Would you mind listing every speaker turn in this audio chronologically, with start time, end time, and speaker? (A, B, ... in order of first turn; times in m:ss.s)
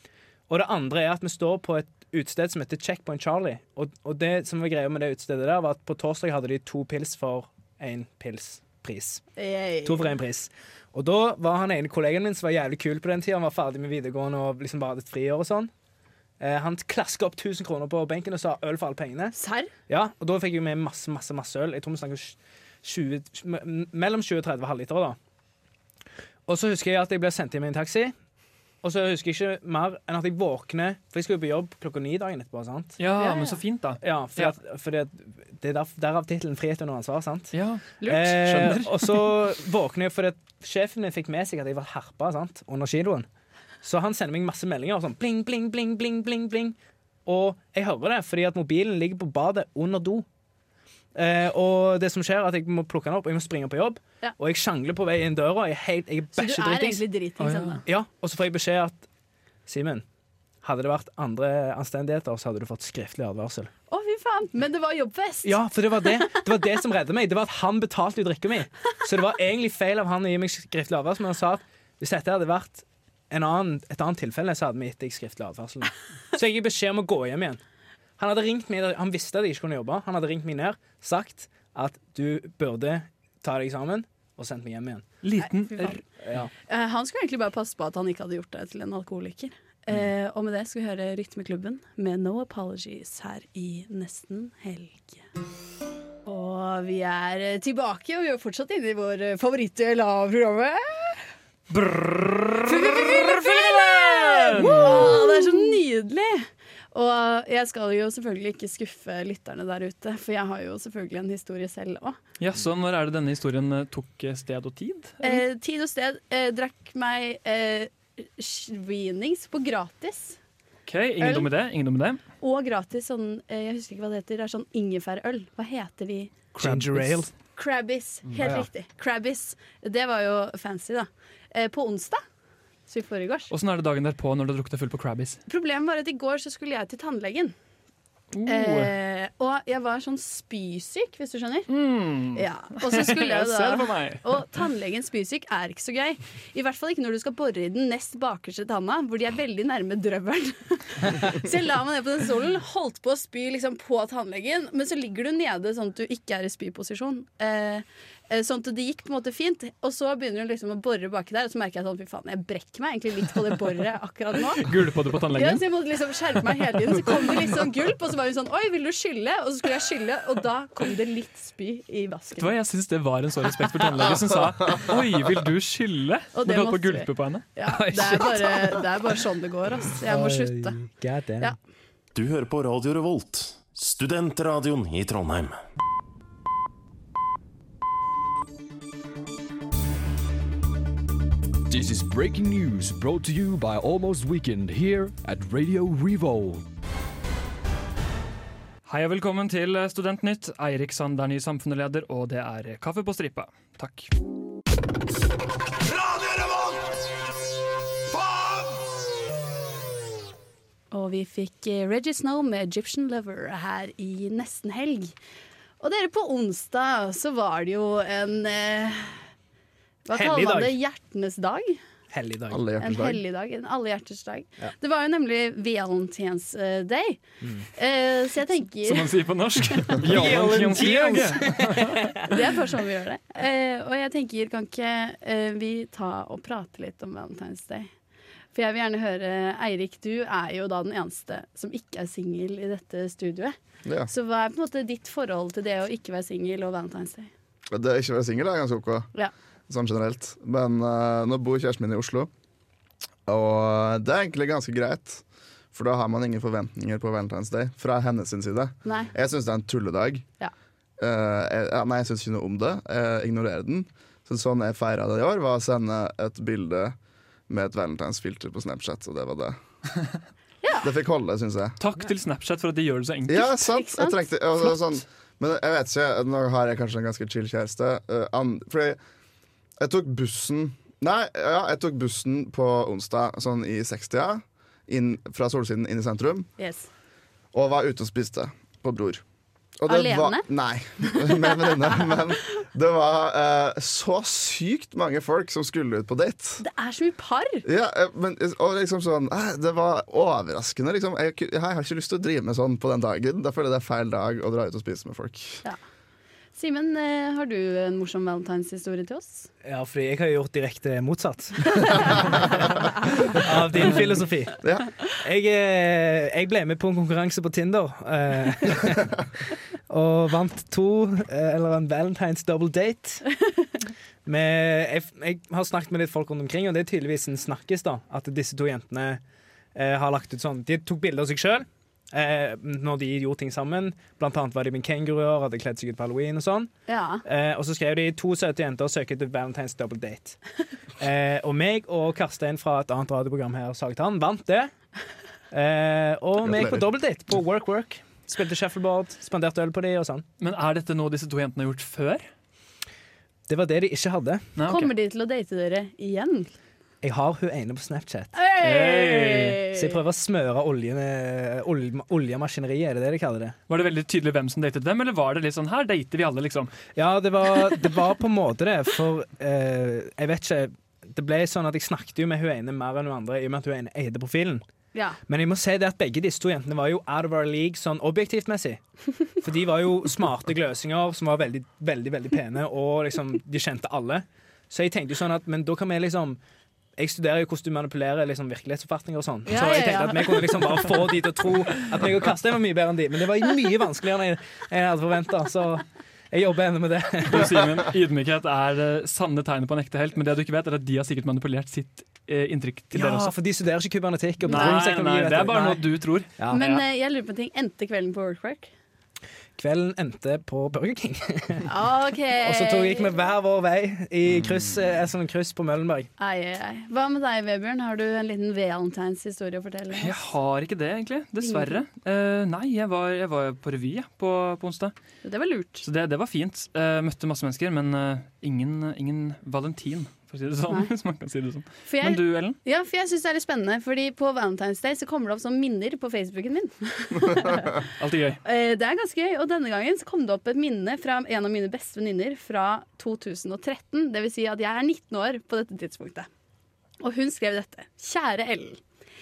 0:00.5-0:09.2 A
0:09.4-0:10.1 B
0:09.8-0:15.7 A
0:16.4-0:19.4 A
0:19.4-0:19.7 B
0:19.9-0:25.2 A
0:26.5-0:28.1 A
0:28.8-0:33.0 A
0:33.0-0:34.5 C
0:33.2-0:33.6 B
0:34.0-0:43.3 A
0:37.5-0:39.4 C
0:43.8-0:46.7 A
0:47.2-0:50.2 A
0:51.1-0:57.0 A
0:56.3-0:57.8 B
0:57.4-0:57.8 C
0:57.8-0:59.0 A
0:59.6-1:00.0 A
1:00.6-1:03.7 A
1:03.9-1:05.6 B
1:05.4-1:17.6 A
1:18.2-1:25.0 A
1:25.2-1:26.0 C
1:25.4-1:26.0 B
1:26.2-1:26.5 A
1:26.7-1:35.2 B
1:36.2-1:41.2 B
1:41.7-1:45.6 C
1:42.6-1:52.2 B
1:52.4-1:55.4 C
1:55.2-2:00.4 B
2:00.8-2:02.2 C
2:01.2-2:01.5 B
2:02.4-2:06.4 B
2:06.6-2:07.3 A
2:06.6-2:07.2 C
2:07.5-2:12.2 B
2:12.9-2:13.5 B
2:13.5-2:15.4 C
2:15.5-2:17.5 B
2:18.3-2:18.9 C
2:18.4-2:21.7 B
2:21.7-2:24.2 C
2:22.3-2:44.6 B
2:44.5-2:45.6 C
2:45.3-2:52.5 B
2:52.4-2:58.8 C
2:56.3-3:00.8 B
3:00.0-3:01.5 A
3:02.1-3:05.6 D
3:11.7-3:16.6 E
3:18.8-3:24.1 C
3:30.9-3:35.1 B
3:35.8-3:39.2 B
3:40.0-3:41.8 B
3:40.1-3:40.8 A
3:42.1-3:42.6 A
3:42.5-3:43.2 F
3:42.8-3:47.2 B
3:47.4-3:47.7 A
3:47.7-3:49.2 B
3:48.8-3:52.0 C
3:50.0-3:52.2 A
3:52.3-3:57.9 B
3:58.5-4:03.6 B
4:03.8-4:04.1 F
4:04.1-4:07.3 B
4:07.7-4:09.1 F
4:09.7-4:12.3 F
4:13.3-4:20.2 F
4:18.8-4:19.1 B
4:21.0-4:27.0 F
4:27.5-4:29.6 F
4:30.6-4:30.9 B
4:30.8-4:31.8 F
4:31.8-4:33.5 C
4:33.3-4:39.0 F
4:33.3-4:34.7 B
4:39.8-4:46.5 F
4:46.6-4:46.9 B
4:47.5-4:49.2 F
4:49.8-4:56.6 F
4:49.9-4:50.5 B
4:51.1-4:52.1 B
4:56.6-4:57.6 B
4:57.6-5:05.6 F
5:06.6-5:09.5 B
5:09.6-5:12.1 A
5:13.4-5:14.6 A
5:15.2-5:19.1 A
5:19.9-5:23.2 A
5:24.2-5:29.2 A
5:29.7-5:36.7 A
5:36.9-5:37.2 B
5:37.2-5:40.4 A
5:41.0-5:44.7 A
5:45.5-5:50.2 A
5:46.4-5:46.9 F
5:50.4-5:52.3 C
5:53.5-5:54.5 A
5:54.6-5:54.9 C
5:54.6-5:56.5 B
5:57.0-5:58.3 A
5:58.3-6:00.0 B
5:58.6-5:59.6 C
5:59.7-6:03.6 A
6:03.7-6:06.7 C
6:06.9-6:14.6 A
6:14.9-6:15.2 B
6:15.3-6:18.8 A
6:19.3-6:26.4 A
6:27.0-6:37.6 A
6:29.4-6:30.9 B
6:37.2-6:43.3 C
6:42.9-6:45.8 A
6:44.4-6:44.8 B
6:44.5-6:46.8 C
6:46.5-6:48.7 B
6:49.6-6:51.7 A
6:51.6-6:53.1 B
6:52.4-6:56.1 A
6:56.2-7:00.2 B
6:59.9-7:04.9 C
7:01.4-7:01.8 B
7:05.2-7:05.8 B
7:05.8-7:12.6 C
7:11.8-7:17.7 B
7:18.0-7:18.4 C
7:18.4-7:26.3 B
7:27.0-7:28.8 B